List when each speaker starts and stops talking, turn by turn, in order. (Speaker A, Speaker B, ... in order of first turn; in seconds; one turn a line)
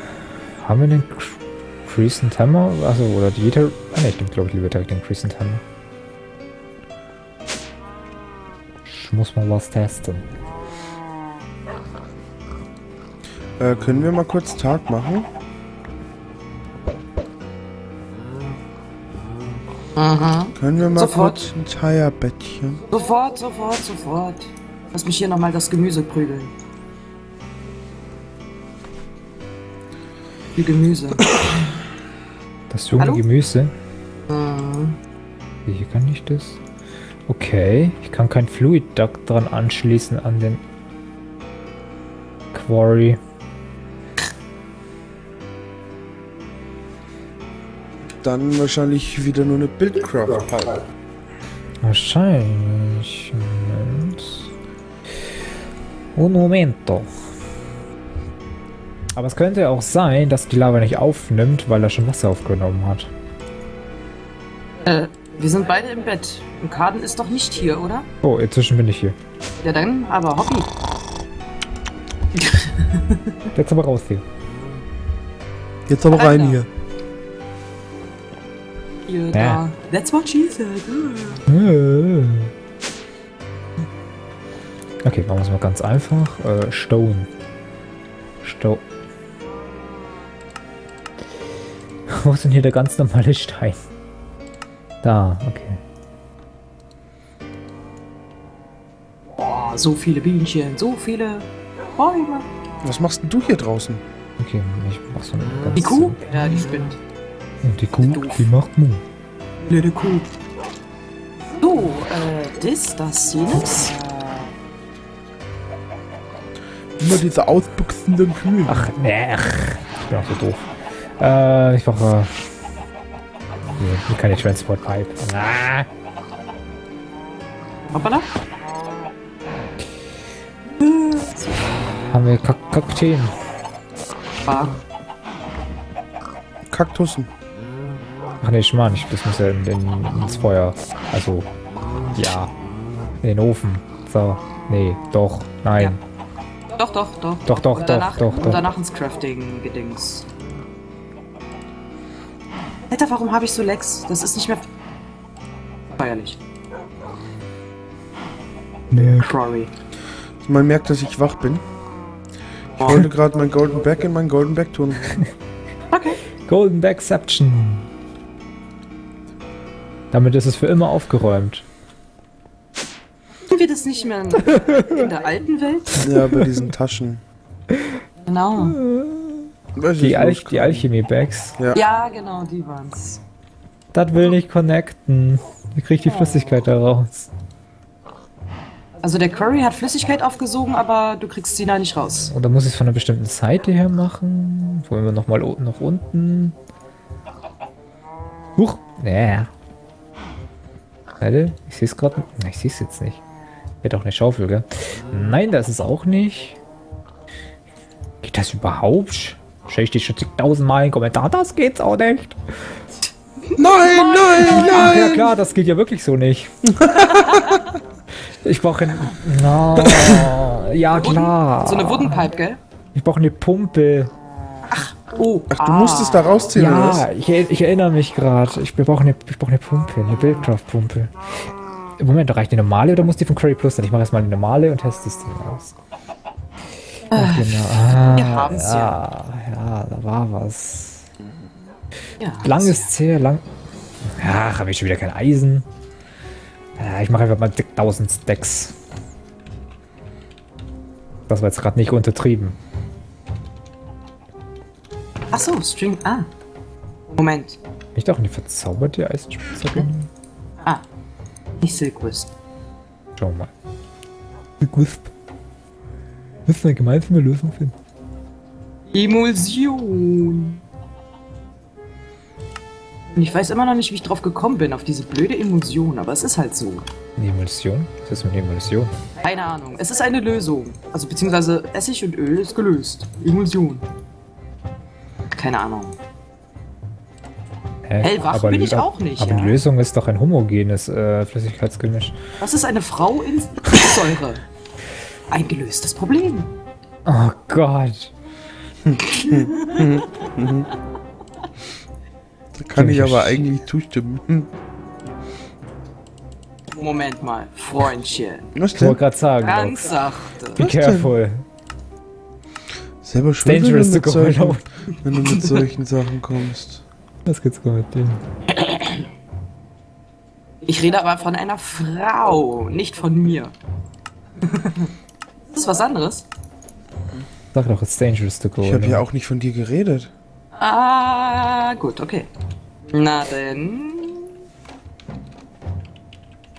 Speaker A: 0.6-5.6
Speaker A: 8.9-10.2
Speaker B: 13.6-15.3
Speaker C: 20.0-21.4
Speaker B: 20.6-22.8
Speaker C: 22.9-26.5
Speaker C: 30.6-31.3
Speaker A: 32.7-33.7
Speaker C: 33.0-33.2
Speaker C: 34.3-35.0
Speaker A: 35.7-36.6
Speaker A: 37.3-40.6
Speaker A: 42.5-43.2
Speaker B: 48.2-50.8
Speaker A: 51.8-54.5
Speaker A: 56.1-57.1
Speaker A: 59.1-63.1
Speaker C: 64.8-68.1
Speaker A: 68.2-69.2
Speaker C: 69.6-70.7
Speaker C: 72.3-73.4
Speaker A: 73.5-74.2
Speaker B: 75.9-76.7
Speaker C: 76.1-76.6
Speaker C: 79.0-81.4
Speaker A: 79.3-79.6
Speaker A: 81.5-82.5
Speaker A: 85.0-87.3
Speaker A: 88.4-88.8
Speaker A: 92.1-93.8
Speaker A: 95.0-95.8
Speaker C: 99.3-102.5
Speaker B: 102.8-104.0
Speaker A: 104.4-106.2
Speaker C: 105.8-107.0
Speaker A: 107.6-109.0
Speaker C: 108.0-108.5
Speaker C: 109.6-110.3
Speaker C: 111.6-114.0
Speaker B: 117.0-118.9
Speaker A: 118.7-122.5
Speaker A: 123.8-125.9
Speaker C: 127.9-128.3
Speaker C: 130.8-131.7
Speaker A: 131.9-133.3
Speaker C: 134.4-134.8
Speaker B: 136.7-137.3
Speaker A: 138.4-141.5
Speaker A: 142.1-142.5
Speaker A: 143.2-146.0
Speaker C: 146.7-150.2
Speaker A: 147.5-148.7
Speaker C: 152.9-154.6
Speaker C: 156.0-156.4
Speaker A: 158.9-159.3
Speaker C: 158.9-159.7
Speaker B: 160.4-161.6
Speaker C: 162.8-163.1
Speaker B: 162.8-165.1
Speaker C: 165.9-166.2
Speaker A: 166.4-167.9
Speaker A: 170.1-171.6
Speaker C: 173.5-176.1
Speaker B: 176.0-177.2
Speaker A: 176.1-176.7
Speaker C: 178.3-178.8
Speaker A: 178.7-181.6
Speaker B: 179.8-180.9
Speaker C: 181.7-183.2
Speaker A: 183.9-187.3
Speaker C: 189.0-192.3
Speaker A: 192.1-196.5
Speaker A: 198.6-199.5
Speaker A: 201.2-203.2
Speaker A: 203.8-206.6
Speaker A: 208.2-212.8
Speaker C: 213.5-214.7
Speaker B: 213.6-215.4
Speaker A: 214.2-216.8
Speaker B: 216.7-217.5
Speaker C: 217.0-217.7
Speaker A: 218.4-222.3
Speaker B: 219.8-220.3
Speaker C: 220.9-222.6
Speaker A: 222.9-224.1
Speaker C: 224.7-226.4
Speaker B: 225.5-227.1
Speaker A: 226.5-235.8
Speaker C: 237.1-239.0
Speaker A: 237.1-241.1
Speaker C: 242.2-242.9
Speaker A: 242.4-243.4
Speaker A: 244.0-245.6
Speaker A: 246.8-248.8
Speaker A: 251.3-252.6
Speaker C: 255.3-256.3
Speaker C: 257.1-257.6
Speaker A: 258.0-260.1
Speaker C: 261.6-262.3
Speaker A: 263.2-263.5
Speaker A: 264.6-265.1
Speaker A: 266.5-267.7
Speaker C: 268.9-270.6
Speaker C: 273.1-276.9
Speaker A: 277.2-278.9
Speaker C: 279.2-283.9
Speaker C: 285.4-285.9
Speaker A: 287.9-292.1
Speaker C: 288.0-289.6
Speaker C: 292.4-294.4
Speaker C: 295.3-296.5
Speaker A: 297.1-298.1
Speaker B: 298.9-300.7
Speaker C: 299.1-300.3
Speaker B: 302.6-304.5
Speaker A: 302.8-303.4
Speaker C: 306.7-308.5
Speaker B: 308.6-309.0
Speaker A: 308.7-310.0
Speaker C: 309.4-310.6
Speaker A: 310.6-311.4
Speaker B: 310.6-311.1
Speaker B: 313.0-316.8
Speaker A: 313.4-314.6
Speaker A: 317.2-318.2
Speaker C: 318.5-319.1
Speaker C: 320.6-323.5
Speaker C: 324.4-324.9
Speaker C: 325.5-326.3
Speaker A: 327.5-329.1
Speaker B: 328.6-330.1
Speaker C: 330.6-332.3
Speaker C: 332.9-334.4